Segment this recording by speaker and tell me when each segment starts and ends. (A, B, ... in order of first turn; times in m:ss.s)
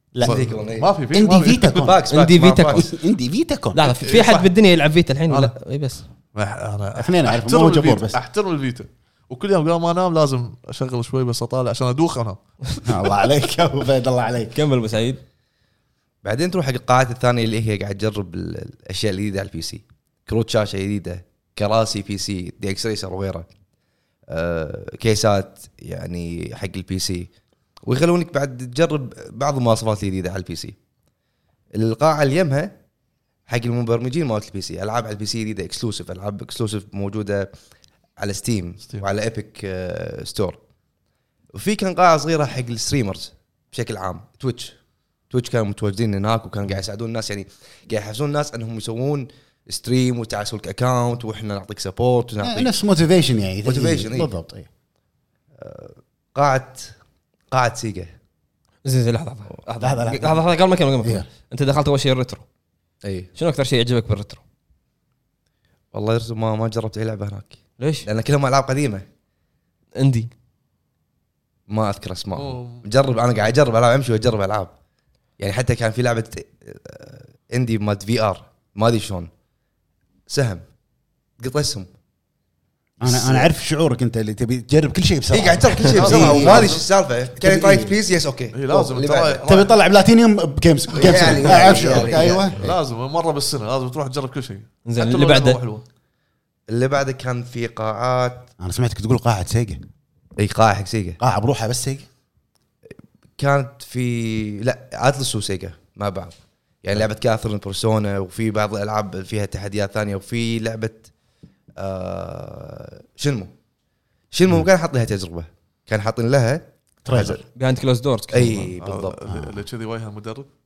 0:00.1-0:00.4 A
0:00.2-0:01.0 B
0:00.2-0:01.9 C
0:01.1-0:02.1 A
0:01.6-0:02.9 B
0:02.1-0:02.9 D
0:02.7-0:03.9 A
0:03.7-0:06.0 D
0:04.0-0:04.5 C
0:05.3-0:05.5 C
0:06.3-0:12.8 C
0:07.0-0:08.2 A
0:12.8-0:14.6 A
0:14.5-0:15.2 D
0:16.2-0:23.5 B
0:24.3-0:27.3 B
0:27.9-0:30.8 B
0:31.8-0:32.7 B
0:33.5-0:37.5 B
0:38.2-0:40.6 B
0:41.5-0:44.8 B
0:45.3-0:52.8 B
0:52.4-0:54.7 A
0:53.6-0:54.3 B
0:55.6-0:56.9 B
0:57.5-0:58.1 B
0:58.8-1:02.4 D
0:59.8-1:00.4 A
1:03.0-1:03.3 B
1:03.4-1:04.4 D
1:05.9-1:09.0 B
1:07.8-1:08.1 D
1:10.0-1:10.3 D
1:11.7-1:14.7 B
1:12.4-1:12.8 C
1:15.4-1:19.3 B
1:20.3-1:20.6 B
1:21.4-1:21.9 B
1:23.0-1:26.8 A
1:23.0-1:23.5 B
1:25.3-1:29.5 B
1:26.0-1:26.8 C
1:27.4-1:28.0 A
1:28.5-1:29.7 C
1:29.5-1:32.7 A
1:30.9-1:32.7 B
1:31.5-1:35.8 C
1:34.8-1:35.6 D
1:36.7-1:38.5 B
1:38.6-1:39.8 A
1:40.4-1:41.2 B
1:41.2-1:42.1 A
1:43.4-1:51.1 B
1:51.8-1:53.5 B
1:54.3-1:57.4 B
1:57.0-1:57.4 A
1:57.6-1:58.7 D
1:58.3-1:59.2 B
1:58.8-2:00.5 C
1:59.3-1:59.6 A